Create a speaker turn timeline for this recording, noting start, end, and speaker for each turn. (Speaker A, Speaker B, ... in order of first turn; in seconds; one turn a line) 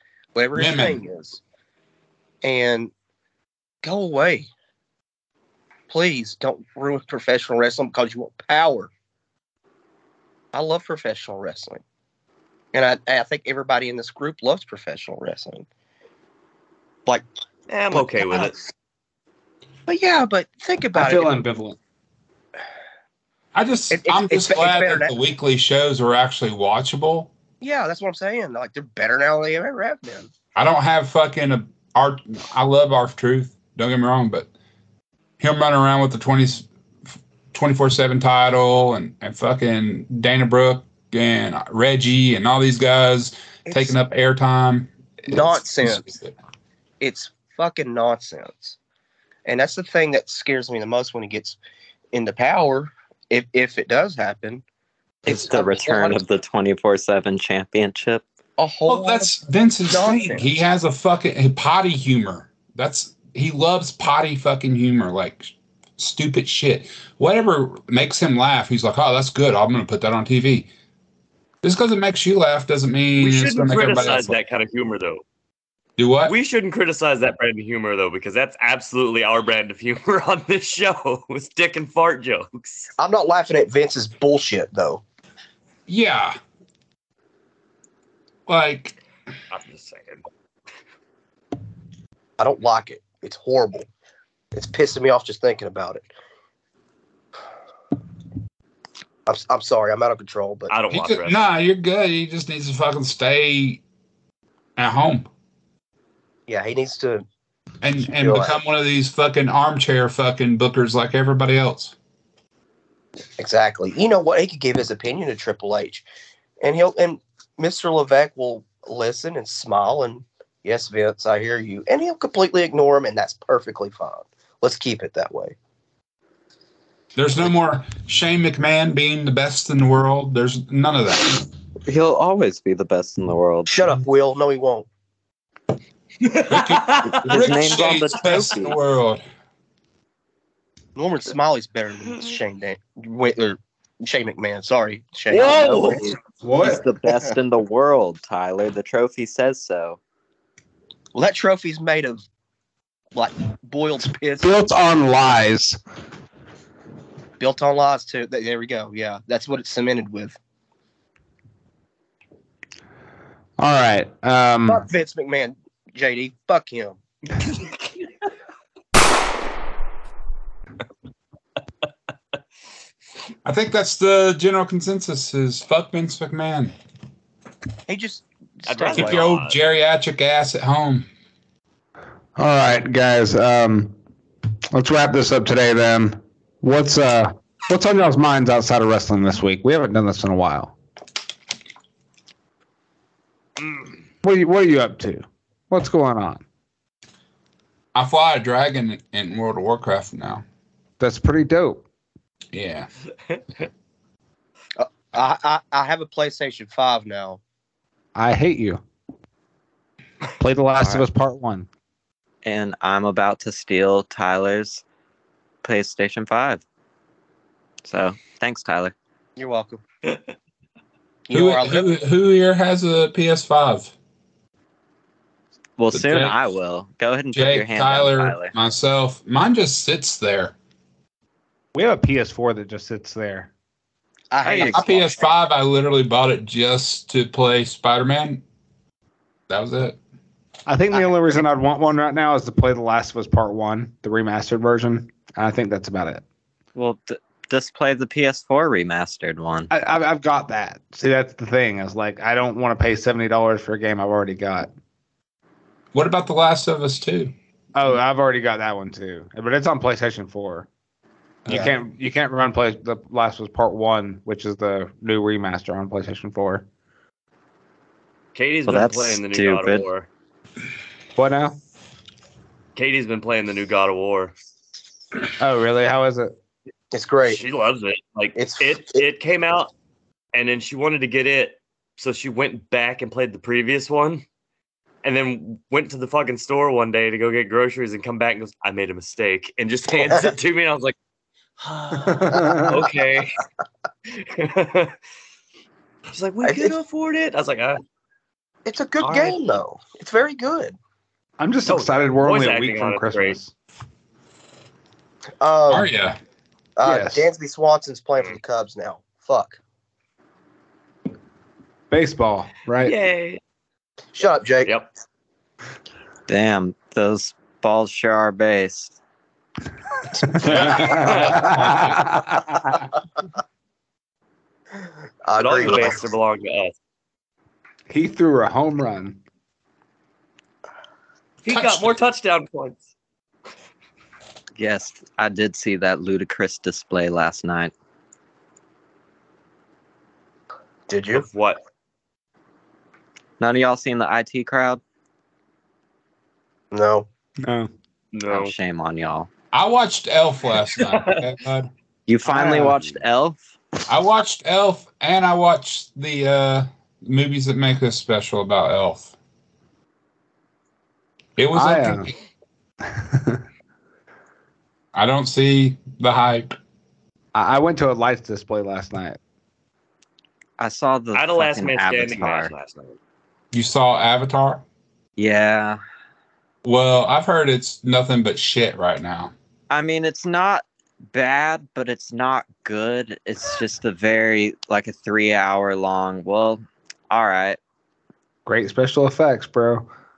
Speaker A: 0.3-1.4
Speaker B: 0.5-1.0
Speaker A: 2.4-2.9
Speaker A: 3.8-4.5
Speaker A: 5.9-8.9
Speaker A: 10.5-11.8
Speaker A: 12.7-15.7
Speaker C: 17.7-18.6
Speaker A: 17.9-18.5
Speaker A: 19.9-21.3
Speaker D: 20.9-21.8
Speaker B: 23.5-27.3
Speaker A: 23.9-25.1
Speaker A: 27.6-30.3
Speaker B: 30.6-34.5
Speaker B: 35.4-36.6
Speaker B: 37.5-46.3
Speaker A: 43.7-44.0
Speaker A: 45.3-46.0
Speaker A: 47.0-48.8
Speaker A: 49.5-51.6
Speaker A: 52.1-54.6
Speaker E: 55.2-58.2
Speaker A: 55.2-56.2
Speaker A: 58.6-59.3
Speaker B: 58.9-70.7
Speaker A: 59.9-60.5
Speaker B: 71.6-74.3
Speaker C: 73.2-75.2
Speaker B: 76.0-76.3
Speaker C: 76.2-82.9
Speaker A: 83.0-85.0
Speaker B: 85.9-86.4
Speaker B: 88.5-89.0
Speaker C: 89.5-90.2
Speaker A: 92.4-93.9
Speaker A: 94.5-96.1
Speaker A: 99.2-100.7
Speaker C: 100.7-101.4
Speaker B: 100.9-103.8
Speaker B: 104.8-105.3
Speaker A: 106.5-107.2
Speaker B: 107.8-111.9
Speaker A: 108.2-108.5
Speaker A: 113.4-116.0
Speaker A: 116.6-125.5
Speaker B: 127.2-131.4
Speaker E: 131.8-133.8
Speaker A: 133.7-134.9
Speaker C: 136.2-137.4
Speaker B: 136.5-139.2
Speaker E: 137.0-138.7
Speaker A: 140.9-146.1
Speaker C: 145.3-146.0
Speaker E: 145.4-150.0
Speaker D: 146.4-146.8
Speaker A: 151.1-152.2
Speaker A: 153.1-154.5
Speaker D: 154.4-155.8
Speaker A: 157.4-160.3
Speaker D: 163.6-164.8
Speaker A: 164.7-167.0
Speaker B: 173.4-176.7
Speaker A: 177.9-179.2
Speaker C: 178.7-179.6
Speaker B: 178.9-181.1
Speaker D: 182.3-183.9
Speaker D: 184.7-190.7
Speaker D: 194.2-196.4
Speaker B: 197.9-200.4
Speaker D: 201.0-201.8
Speaker B: 202.5-202.9
Speaker C: 203.3-203.6
Speaker A: 204.8-207.4
Speaker D: 208.1-208.8
Speaker D: 210.4-211.7
Speaker E: 210.8-211.0
Speaker E: 212.4-214.8
Speaker E: 215.6-216.6
Speaker E: 217.8-218.9
Speaker A: 219.4-219.8
Speaker A: 221.3-221.9
Speaker B: 221.3-223.9
Speaker E: 225.8-228.5
Speaker B: 225.9-226.3
Speaker B: 227.3-230.5
Speaker D: 231.7-233.5
Speaker A: 234.3-235.3
Speaker E: 234.4-234.8
Speaker B: 234.6-238.4
Speaker B: 239.5-240.0
Speaker D: 240.7-246.2
Speaker E: 246.7-249.7
Speaker D: 249.7-254.7
Speaker B: 255.9-257.3
Speaker D: 257.7-260.7
Speaker D: 261.5-266.6
Speaker C: 268.3-270.1
Speaker E: 268.7-269.9
Speaker D: 271.1-271.6
Speaker C: 272.7-274.3
Speaker D: 275.4-276.3
Speaker A: 276.9-277.4
Speaker C: 277.3-279.7
Speaker A: 278.3-279.0
Speaker C: 280.3-284.2
Speaker C: 285.0-290.9
Speaker C: 291.6-293.3
Speaker D: 292.1-292.7
Speaker C: 294.1-294.9
Speaker C: 296.1-297.8
Speaker A: 296.4-296.7
Speaker A: 298.6-300.8
Speaker C: 299.0-299.4
Speaker D: 301.4-303.5
Speaker C: 301.7-303.4
Speaker A: 305.4-305.9
Speaker B: 305.7-306.2
Speaker A: 306.8-309.6
Speaker D: 306.8-307.2
Speaker D: 311.9-312.9
Speaker C: 312.8-313.4
Speaker A: 314.1-314.7
Speaker E: 316.3-318.9
Speaker D: 320.4-322.6
Speaker B: 320.5-321.9
Speaker C: 320.8-321.3
Speaker A: 325.2-326.0
Speaker C: 325.3-326.7
Speaker D: 327.9-329.2
Speaker C: 331.4-332.9
Speaker B: 331.5-332.0
Speaker E: 334.6-337.7
Speaker A: 340.9-341.2
Speaker C: 341.1-341.6
Speaker E: 343.4-344.8
Speaker A: 346.7-347.1
Speaker D: 347.4-347.7
Speaker C: 348.1-348.5
Speaker E: 348.3-349.3
Speaker B: 349.5-351.7
Speaker C: 350.8-351.2
Speaker E: 352.1-353.4
Speaker D: 352.3-352.7
Speaker C: 352.7-353.0
Speaker B: 353.9-359.1
Speaker B: 361.4-362.1
Speaker D: 361.5-362.1
Speaker D: 362.8-363.4
Speaker B: 364.9-366.6
Speaker D: 367.3-369.2
Speaker E: 370.6-372.5
Speaker C: 371.1-373.0
Speaker B: 373.5-374.6
Speaker E: 375.2-375.8
Speaker B: 376.6-379.3
Speaker E: 379.7-387.6
Speaker D: 388.4-389.9